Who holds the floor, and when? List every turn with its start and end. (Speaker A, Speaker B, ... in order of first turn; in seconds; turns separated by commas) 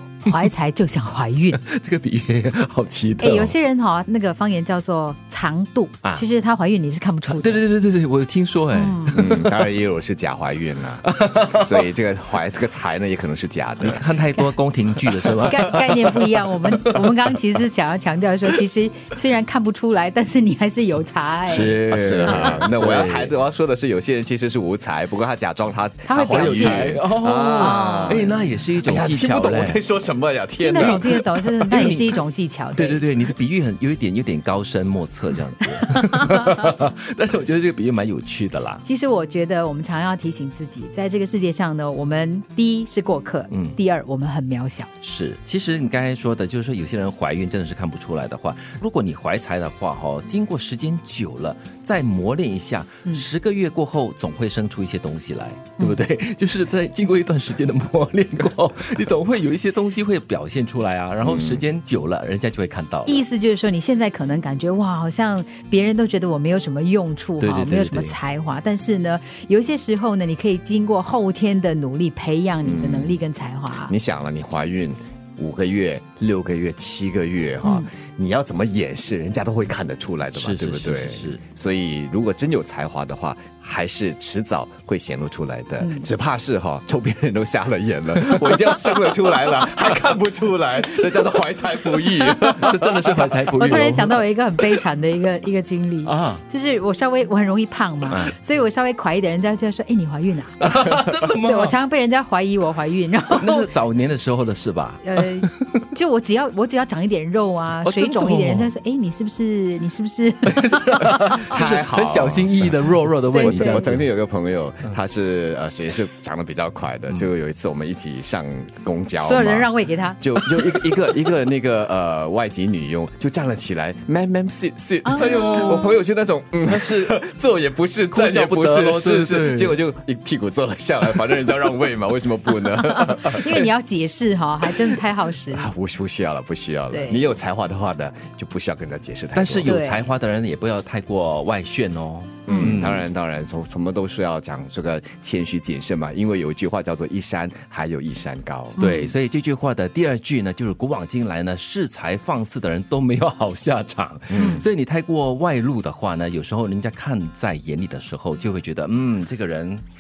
Speaker A: 0.2-1.6, Speaker B: 1.5-3.5, Speaker A: 3.2-7.6, Speaker B: 7.3-9.6, Speaker A: 8.7-9.2, Speaker C: 9.2-14.1, Speaker B: 11.1-11.8, Speaker B: 13.8-17.3, Speaker A: 15.3-22.6, Speaker B: 21.5-23.3, Speaker C: 21.6-31.2, Speaker A: 26.1-27.0, Speaker B: 26.2-29.8, Speaker A: 27.6-28.4, Speaker A: 30.6-33.0, Speaker B: 30.8-32.2, Speaker B: 32.7-38.8, Speaker A: 38.8-44.9, Speaker B: 43.5-43.8, Speaker B: 45.0-63.3, Speaker C: 61.2-61.6, Speaker A: 63.1-73.9, Speaker B: 67.4-68.2, Speaker C: 72.6-73.2, Speaker C: 73.9-93.8, Speaker B: 80.3-81.4, Speaker A: 85.8-86.1, Speaker B: 88.3-88.8, Speaker B: 91.0-91.3, Speaker B: 91.9-94.2, Speaker A: 93.6-103.7, Speaker B: 96.0-96.4, Speaker B: 98.1-98.3, Speaker B: 100.6-101.8, Speaker B: 103.3-105.9, Speaker A: 105.0-110.7, Speaker B: 107.8-108.7, Speaker B: 110.5-114.0, Speaker C: 111.1-112.8, Speaker A: 113.3-113.9, Speaker C: 113.4-119.7, Speaker A: 119.2-120.2, Speaker C: 120.2-133.7, Speaker A: 125.0-126.0, Speaker B: 126.7-127.2, Speaker B: 128.1-129.8, Speaker A: 132.9-135.7, Speaker C: 135.5-139.8, Speaker A: 136.9-137.3, Speaker B: 139.3-143.1, Speaker A: 139.7-140.1, Speaker A: 142.5-142.8, Speaker C: 142.5-148.8, Speaker B: 148.8-159.8, Speaker A: 148.8-149.2, Speaker C: 154.3-154.6